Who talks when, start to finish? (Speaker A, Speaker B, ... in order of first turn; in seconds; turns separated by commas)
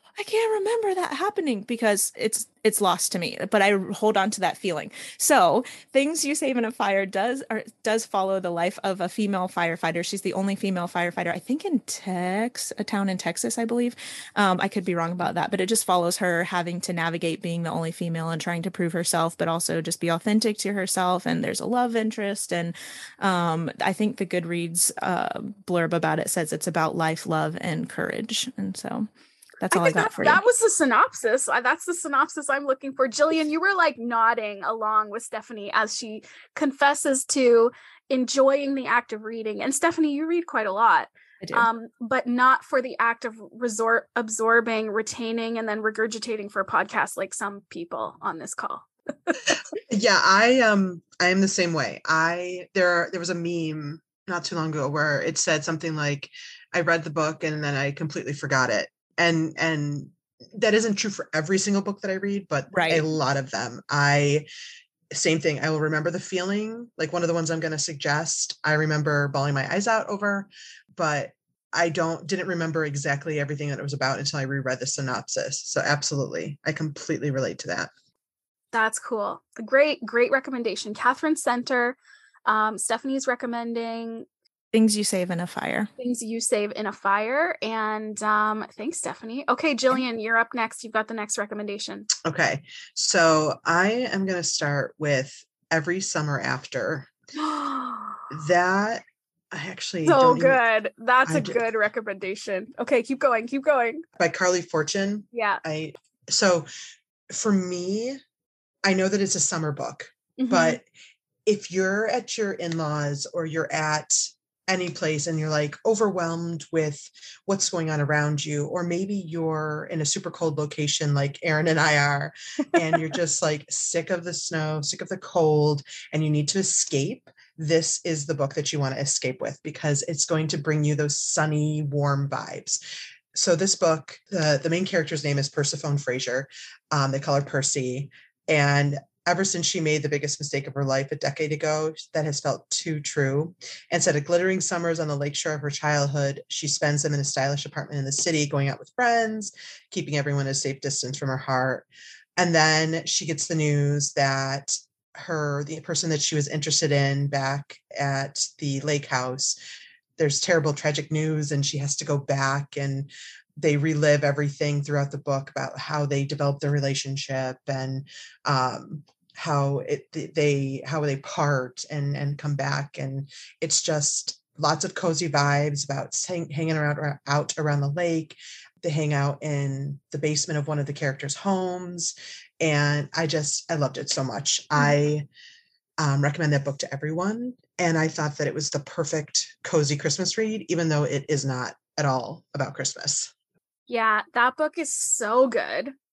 Speaker A: 0.2-29.1, Speaker A: 29.6-30.4, Speaker B: 29.7-49.6, Speaker C: 49.9-64.5, Speaker A: 62.7-63.0, Speaker C: 65.1-77.9, Speaker B: 78.7-84.3, Speaker A: 84.7-85.9, Speaker B: 86.0-92.1, Speaker C: 92.2-97.1, Speaker B: 97.3-98.3, Speaker C: 98.3-100.6, Speaker B: 100.0-104.0, Speaker C: 101.2-101.6, Speaker C: 104.2-106.7, Speaker B: 105.3-105.6, Speaker C: 107.3-108.2, Speaker C: 108.8-110.8, Speaker B: 110.4-110.8, Speaker C: 111.5-132.8, Speaker C: 133.3-159.6, Speaker C: 160.2-185.3, Speaker C: 186.0-193.3, Speaker B: 193.9-195.9